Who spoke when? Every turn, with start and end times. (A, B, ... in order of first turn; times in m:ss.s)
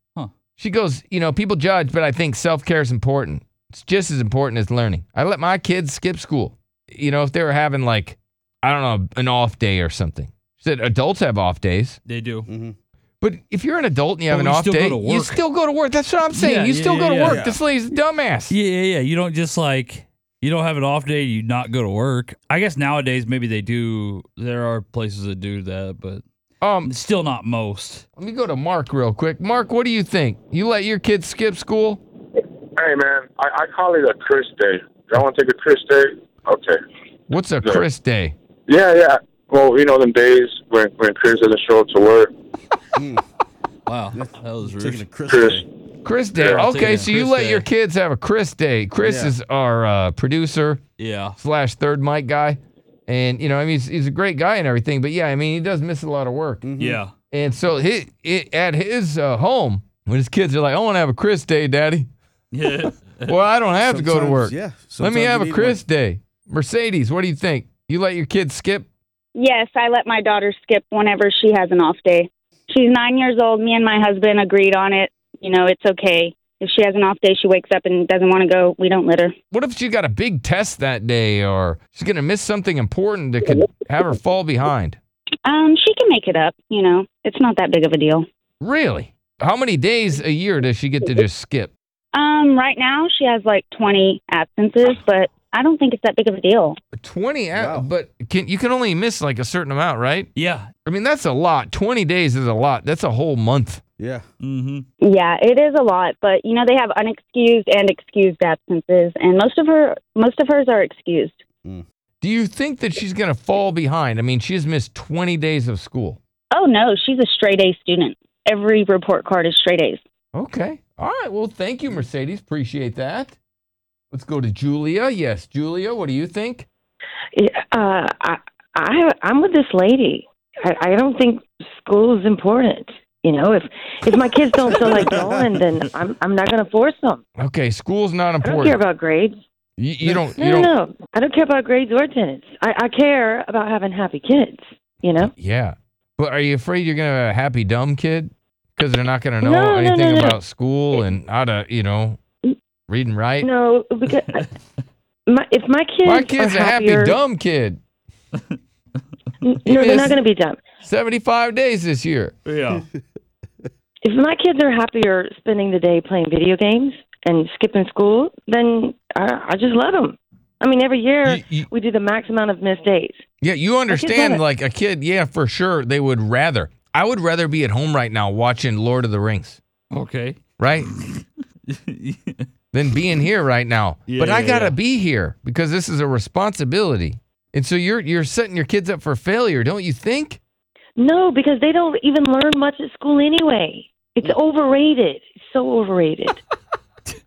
0:00.6-0:12.0 A
0:12.1-0:12.5 B
0:12.5-0:12.8 C
0:13.2-0:18.5 A
0:14.3-0:15.4 B
0:16.3-0:17.6 B
0:18.5-0:26.2 B
0:26.6-0:26.9 A
0:26.8-0:28.0 B
0:28.2-0:32.0 A
0:32.8-0:36.8 D
0:37.3-0:38.4 A
0:38.7-0:42.3 D
0:43.0-0:43.2 C
0:43.9-0:45.1 B
0:44.1-0:45.7 C
0:45.3-0:45.6 D
0:46.0-0:50.8 A
0:46.4-0:47.7 B
0:49.0-0:49.3 C
0:51.0-0:51.4 B
0:51.4-0:56.6 A
0:56.6-0:57.0 C
0:56.8-0:57.1 B
0:57.3-1:02.1 A
1:02.5-1:03.3 B
1:03.3-1:08.9 A
1:03.8-1:05.8 C
1:09.4-1:19.3 E
1:19.5-1:25.0 A
1:25.5-1:28.3 E
1:28.6-1:31.7 A
1:32.1-1:36.8 E
1:36.9-1:40.3 A
1:37.6-1:37.9 C
1:40.4-1:40.7 B
1:40.8-1:43.8 A
1:44.0-1:44.3 C
1:44.4-1:44.8 B
1:45.0-1:51.4 E
1:52.2-1:56.2 A
1:56.5-2:00.0 E
2:00.3-2:03.4 A
2:04.1-2:06.7 A
2:07.3-2:17.2 F
2:17.4-2:18.8 A
2:18.4-2:19.4 F
2:19.8-2:20.7 A
2:20.4-2:25.3 F
2:25.2-2:32.2 A
2:29.4-2:30.4 F
2:32.9-2:33.5 A
2:33.4-2:34.5 F
2:35.3-2:37.2 F
2:36.0-2:37.8 A
2:39.4-2:40.6 F
2:39.7-2:40.2 A
2:40.8-2:42.3 A
2:42.5-2:42.8 B
2:44.0-2:53.2 F
2:51.2-2:51.7 A
2:53.4-2:59.6 A
2:53.9-2:54.4 F
2:59.9-3:02.5 B
3:00.6-3:00.9 A
3:02.7-3:10.4 A
3:04.1-3:04.8 B
3:11.0-3:16.4 F